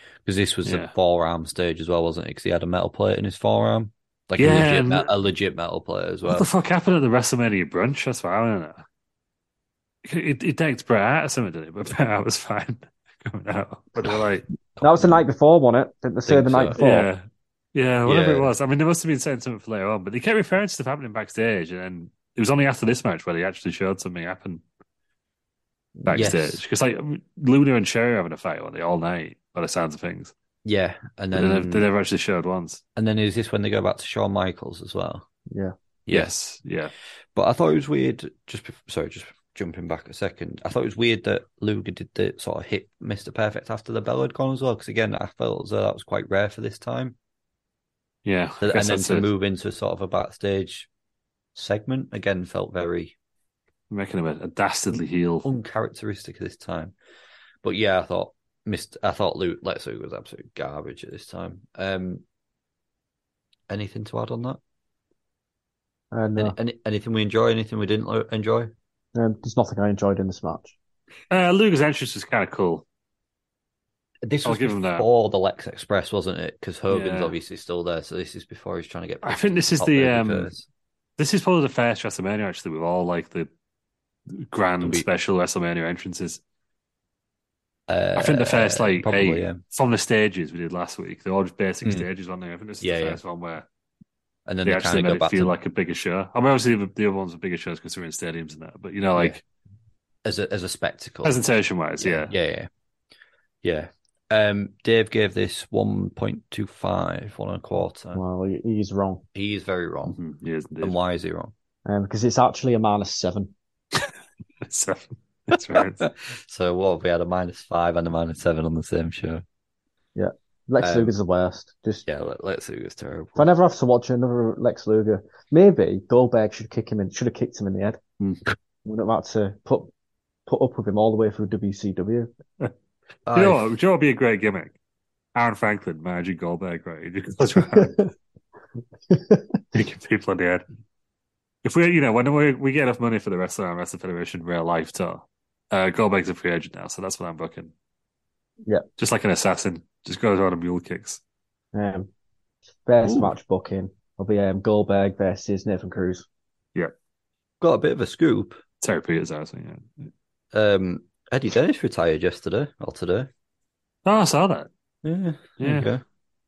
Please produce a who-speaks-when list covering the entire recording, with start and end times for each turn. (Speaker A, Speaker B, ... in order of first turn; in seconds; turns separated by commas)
Speaker A: 0.2-6.5, Speaker B: 0.6-0.9, Speaker B: 4.4-5.1, Speaker B: 6.3-8.8, Speaker B: 10.1-14.4, Speaker A: 14.8-15.3, Speaker C: 14.8-17.1, Speaker A: 16.3-16.8, Speaker B: 16.8-17.2, Speaker B: 17.8-24.6, Speaker A: 18.1-18.5, Speaker A: 26.1-26.6, Speaker B: 26.1-30.3, Speaker A: 30.6-31.9, Speaker B: 31.3-32.8, Speaker A: 33.0-35.3, Speaker A: 36.1-36.3, Speaker B: 36.1-36.9, Speaker A: 37.4-47.2, Speaker B: 48.2-49.3, Speaker A: 48.6-50.9, Speaker A: 51.5-53.1, Speaker B: 53.9-55.5, Speaker A: 55.4-56.9, Speaker A: 57.6-62.2, Speaker A: 63.7-64.6, Speaker C: 66.1-66.5, Speaker A: 66.4-68.7, Speaker C: 69.1-70.8, Speaker B: 71.3-72.8, Speaker A: 74.2-80.7, Speaker B: 74.5-75.1, Speaker B: 76.9-77.3, Speaker B: 79.2-80.5, Speaker B: 81.2-83.5, Speaker B: 84.3-86.4, Speaker A: 84.8-85.1, Speaker A: 87.9-89.6, Speaker B: 88.2-93.7, Speaker A: 92.8-93.2, Speaker A: 94.5-95.5, Speaker B: 94.6-99.4, Speaker A: 100.2-101.4, Speaker B: 101.2-102.3, Speaker A: 102.0-102.7, Speaker A: 103.6-108.2, Speaker C: 108.1-109.2, Speaker A: 109.3-110.2, Speaker B: 110.1-111.0, Speaker A: 110.8-111.5, Speaker C: 111.9-113.5, Speaker B: 114.6-116.1, Speaker A: 116.0-119.4, Speaker C: 120.2-122.0, Speaker A: 120.8-121.1, Speaker A: 122.1-123.5, Speaker C: 123.4-128.0, Speaker C: 128.8-129.9, Speaker C: 130.5-132.3, Speaker A: 133.3-133.6, Speaker B: 133.3-134.8, Speaker B: 135.3-138.1, Speaker C: 139.1-139.6, Speaker B: 139.7-140.6, Speaker B: 141.6-147.7, Speaker B: 149.0-151.2, Speaker C: 151.7-152.1, Speaker C: 152.9-156.3, Speaker A: 157.6-158.6, Speaker B: 158.8-159.9, Speaker A: 160.5-163.3, Speaker B: 164.1-164.7, Speaker A: 165.0-166.0, Speaker B: 165.6-165.9